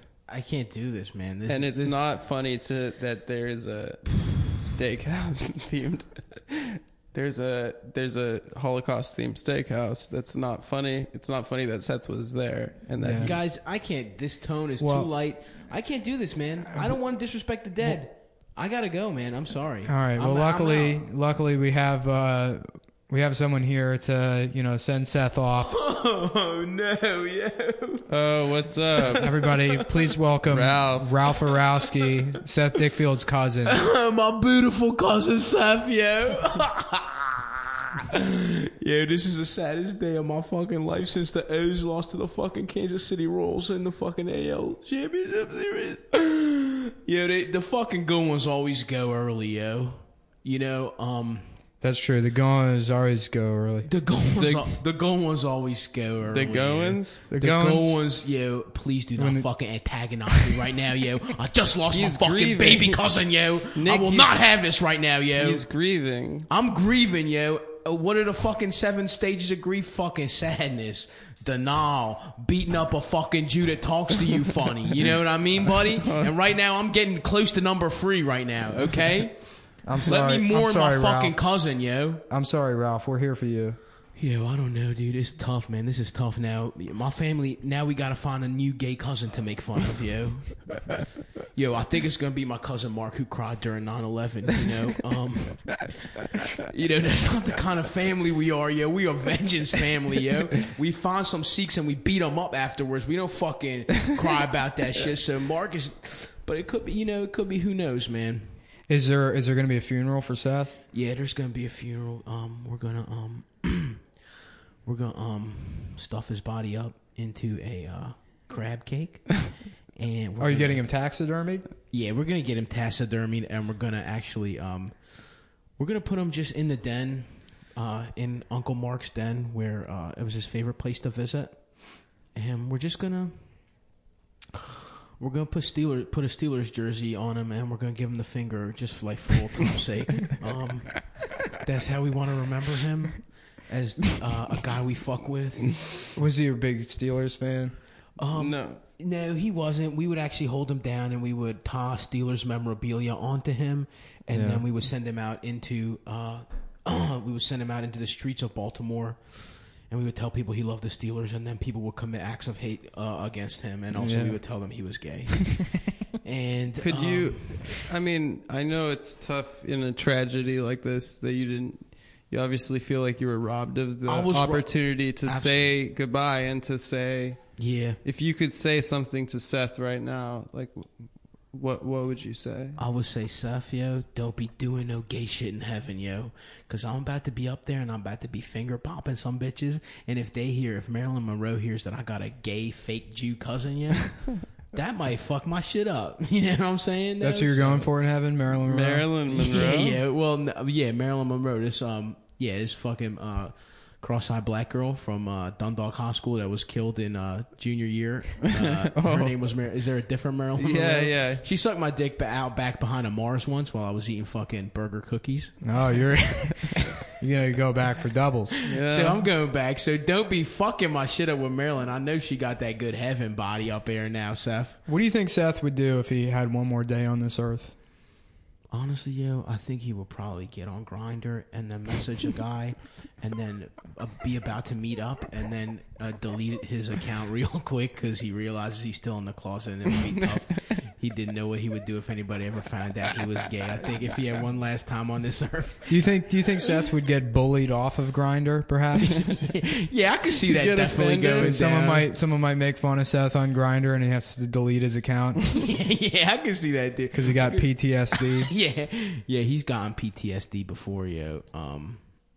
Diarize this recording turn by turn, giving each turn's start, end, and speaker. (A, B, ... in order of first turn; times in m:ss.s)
0:00.3-0:02.0 A
0:01.5-0:13.4 B
0:13.0-0:13.4 C
0:13.2-0:21.0 A
0:14.8-0:15.1 C
0:19.9-0:25.8 C
0:25.7-0:28.0 A
0:28.1-0:29.3 B
0:29.2-0:33.8 C
0:29.3-0:30.1 A
0:30.5-0:31.2 B
0:33.7-0:51.5 A
0:51.8-0:53.9 C
0:53.9-1:05.6 A
0:54.4-0:54.7 B
0:56.3-0:57.3 B
0:57.3-0:58.0 C
0:59.2-0:59.5 C
1:00.3-1:00.6 C
1:01.9-1:03.0 B
1:03.7-1:04.3 B
1:05.4-1:06.5 B
1:06.5-1:22.2 A
1:16.0-1:16.3 B
1:19.8-1:21.4 C
1:22.3-1:23.8 C
1:24.2-1:48.6 A
1:48.9-1:50.8 C
1:50.9-1:54.0 A
1:54.8-2:00.8 A
2:00.4-2:01.6 C
2:01.9-2:05.1 A
2:05.8-2:13.5 A
2:15.2-2:25.9 A
2:26.2-2:27.8 C
2:28.2-2:47.8 A
2:28.3-2:28.8 B
2:34.3-2:34.6 C
2:43.9-2:44.4 C
2:46.8-2:57.4 B
2:54.1-2:55.7 A
2:57.6-2:58.0 A
2:58.0-3:00.9 B
3:01.5-3:02.8 B
3:02.8-3:17.9 A
3:17.2-3:19.1 C
3:18.7-3:20.0 B
3:19.3-3:35.8 A
3:28.6-3:29.3 B
3:30.6-3:31.4 B
3:35.6-3:38.6 C
3:38.7-3:39.2 B
3:38.7-3:44.8 A
3:44.9-3:47.8 C
3:48.7-4:06.0 A
4:05.9-4:09.4 C
4:09.2-4:12.1 A
4:10.6-4:11.6 B
4:11.3-4:15.6 C
4:15.5-4:22.0 A
4:17.1-4:18.5 C